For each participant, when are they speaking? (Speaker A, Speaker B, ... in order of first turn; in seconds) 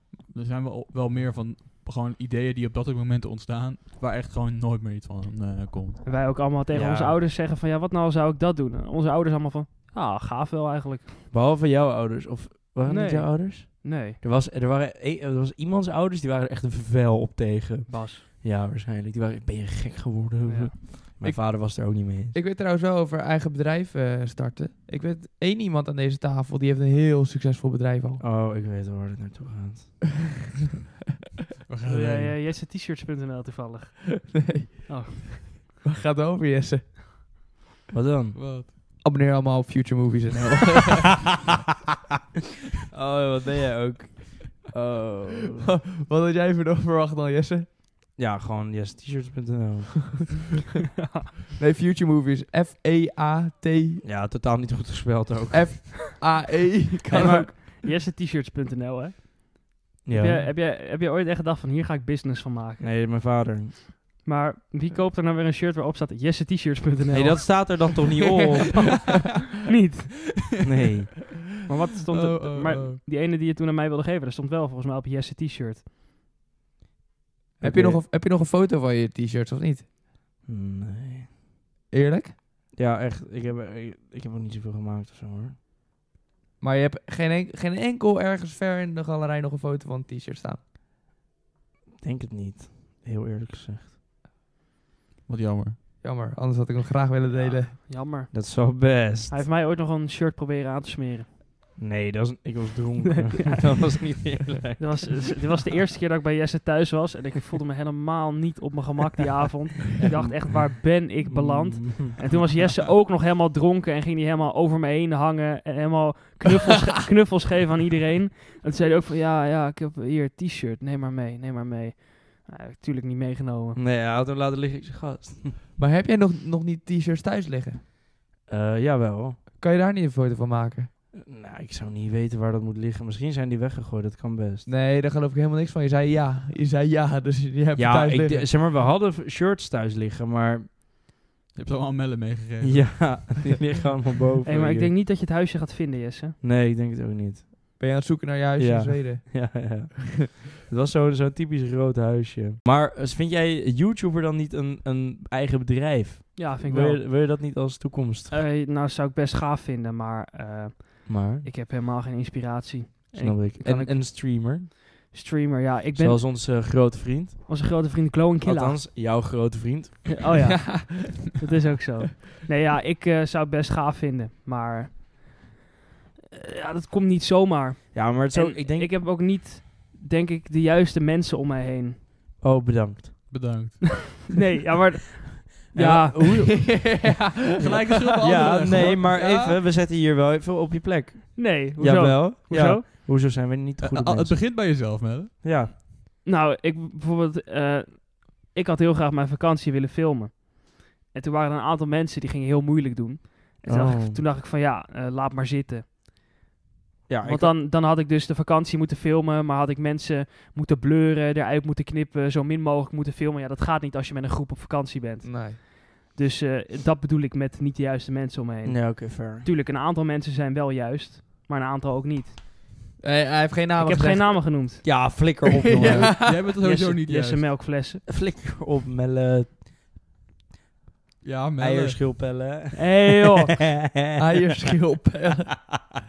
Speaker A: 0.3-6.0, 31.7-32.4, 38.3-38.7, 72.1-73.0, 95.2-95.8, 141.5-143.4, 183.3-184.2, 187.6-189.6, 193.8-195.4, 225.8-227.5, 231.2-232.0
Speaker B: 6.0-11.2, 12.8-14.2, 17.9-18.2, 20.4-20.8, 31.9-34.3, 34.9-35.5, 51.0-51.3, 57.1-62.9, 64.2-67.9, 69.7-70.5, 71.7-75.8, 97.3-98.3, 99.3-101.3, 103.1-103.8, 104.8-123.8, 144.4-146.4, 156.3-157.1, 158.3-164.0, 165.1-166.2, 167.5-168.8, 170.1-175.4, 176.3-182.0, 184.3-186.6, 191.3-192.8, 196.2-205.9, 207.2-222.4, 223.8-224.8, 226.6-228.0, 232.7-233.6
Speaker C: 6.7-7.2, 11.3-22.3, 28.2-30.0, 37.9-38.4, 42.9-45.7, 48.1-50.4, 54.0-55.8, 60.0-60.5, 62.8-63.8, 67.1-69.1, 70.6-71.2, 77.6-78.0, 80.4-81.3, 82.7-85.5, 92.0-93.9, 98.3-99.4, 101.8-105.4, 110.0-110.6, 111.2-112.2, 123.8-125.6, 128.4-129.4, 131.1-134.7, 137.8-140.7, 142.6-144.9, 146.4-147.5, 148.6-158.4, 161.1-161.5, 163.1-164.7, 165.9-167.5, 168.4-170.3, 177.9-178.9, 182.4-183.5, 185.7-186.7, 188.2-194.4, 195.4-195.7, 203.6-204.2, 207.1-207.6, 218.6-219.5, 224.8-226.9, 228.0-229.6, 231.6-233.3
Speaker D: 21.2-21.8, 22.3-28.2, 34.3-35.3, 35.8-37.2, 39.0-41.3, 45.6-47.7, 51.6-54.0, 55.5-57.5, 77.6-79.9, 81.9-82.3, 86.6-90.6, 96.0-97.8, 125.8-127.8, 129.6-130.9, 134.7-138.5, 147.8-149.8, 163.6-163.9, 170.4-171.3, 186.4-189.0, 215.2-215.6, 223.0-224.7, 225.7-226.5, 234.2-235.8